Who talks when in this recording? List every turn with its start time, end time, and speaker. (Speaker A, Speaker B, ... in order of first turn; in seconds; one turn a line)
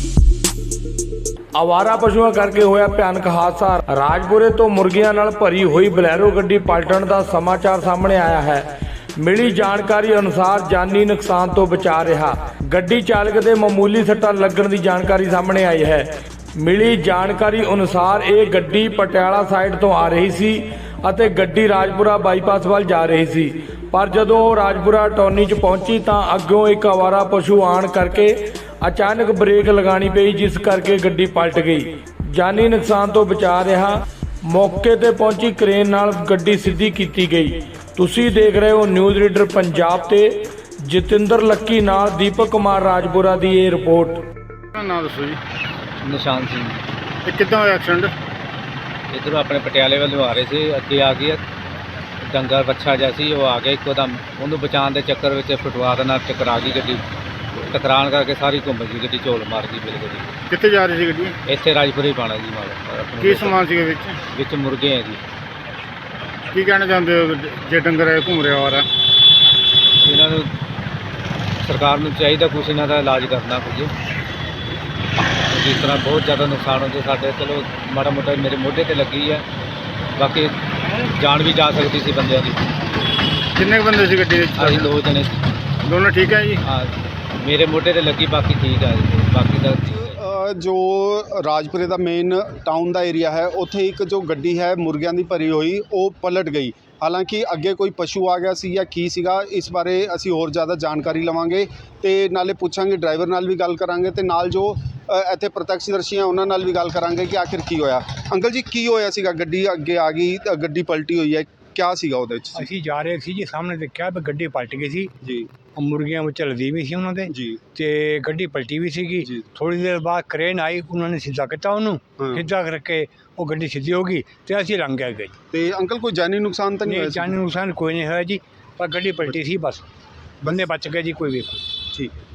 Speaker A: 1.5-8.7
Speaker A: 9.2-44.2
Speaker B: 44.7-45.4
Speaker C: 46.0-46.8
Speaker B: 47.2-48.1
Speaker C: 49.1-51.4
Speaker C: 52.2-57.0
Speaker C: 57.5-60.3
Speaker B: 60.5-61.4
Speaker C: 61.5-63.6
Speaker B: 63.2-64.2
Speaker C: 64.3-65.2
Speaker B: 66.5-68.9
Speaker C: 70.0-70.5
Speaker C: 71.6-73.9
Speaker C: 75.4-79.4
Speaker C: 80.2-82.6
Speaker B: 83.5-84.9
Speaker C: 84.5-85.4
Speaker B: 85.8-86.6
Speaker C: 86.6-90.2
Speaker D: 89.9-112.7
Speaker E: 112.5-115.1
Speaker D: 115.2-115.5
Speaker E: 115.8-125.3
Speaker D: 117.3-117.6
Speaker D: 119.2-119.5
Speaker D: 122.2-122.5
Speaker D: 125.5-127.3
Speaker E: 126.8-129.8
Speaker E: 130.4-131.6